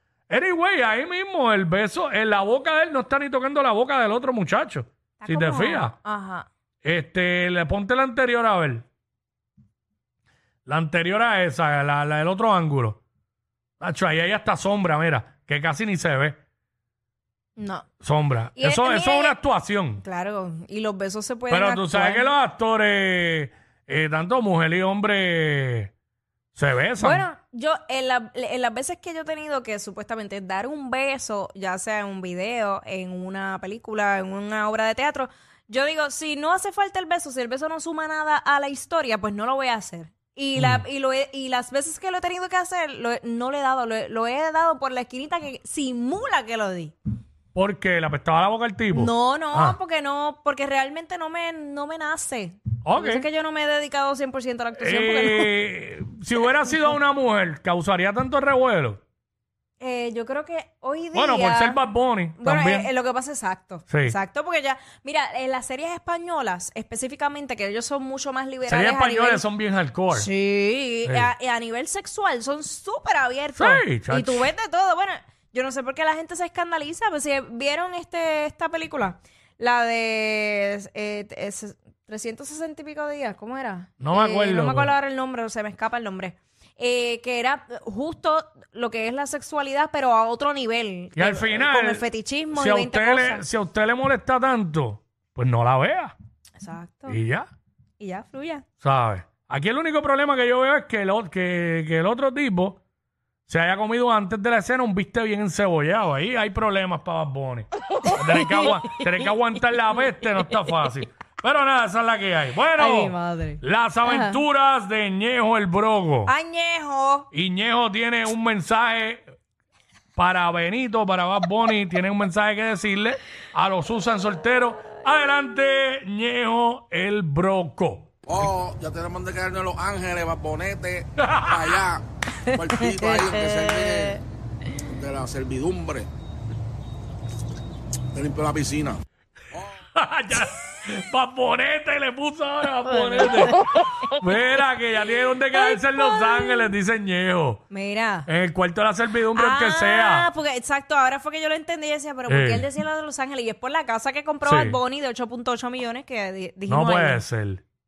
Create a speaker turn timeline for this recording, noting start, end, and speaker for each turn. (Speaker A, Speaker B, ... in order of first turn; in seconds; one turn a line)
Speaker A: 0.3-6.0
Speaker B: 5.2-6.5
Speaker A: 6.8-8.8
Speaker A: 10.7-13.0
Speaker A: 13.8-16.4
Speaker B: 17.6-17.9
Speaker A: 18.0-20.0
Speaker B: 18.6-19.4
Speaker B: 20.0-22.3
Speaker A: 21.5-25.9
Speaker A: 26.6-27.2
Speaker B: 27.0-47.0
Speaker A: 40.6-40.8
Speaker A: 47.5-49.8
Speaker B: 48.9-55.6
Speaker A: 52.8-53.3
Speaker A: 54.8-59.0
Speaker B: 59.8-61.8
Speaker A: 61.1-62.9
Speaker B: 62.4-69.4
Speaker A: 63.9-64.2
Speaker A: 68.7-70.3
Speaker B: 70.1-93.4
Speaker A: 73.6-74.5
Speaker A: 84.0-84.9
Speaker A: 91.2-96.1
Speaker B: 96.6-97.2
Speaker A: 97.1-97.5
Speaker B: 98.0-98.7
Speaker A: 98.8-102.8
Speaker A: 103.5-116.3
Speaker B: 108.0-108.8
Speaker B: 112.8-114.4
Speaker B: 116.2-117.3
Speaker A: 117.3-119.2
Speaker A: 120.2-128.1
Speaker C: 128.3-131.0
Speaker A: 131.2-131.8
Speaker B: 132.4-134.2
Speaker C: 132.7-133.9
Speaker C: 135.0-136.1
Speaker C: 138.2-139.0
Speaker A: 139.9-147.6
Speaker B: 142.9-143.9
Speaker B: 145.5-146.7
Speaker B: 147.7-148.3
Speaker A: 148.3-150.3
Speaker B: 149.3-157.2
Speaker A: 152.3-152.7
Speaker A: 154.4-154.8
Speaker A: 156.7-157.6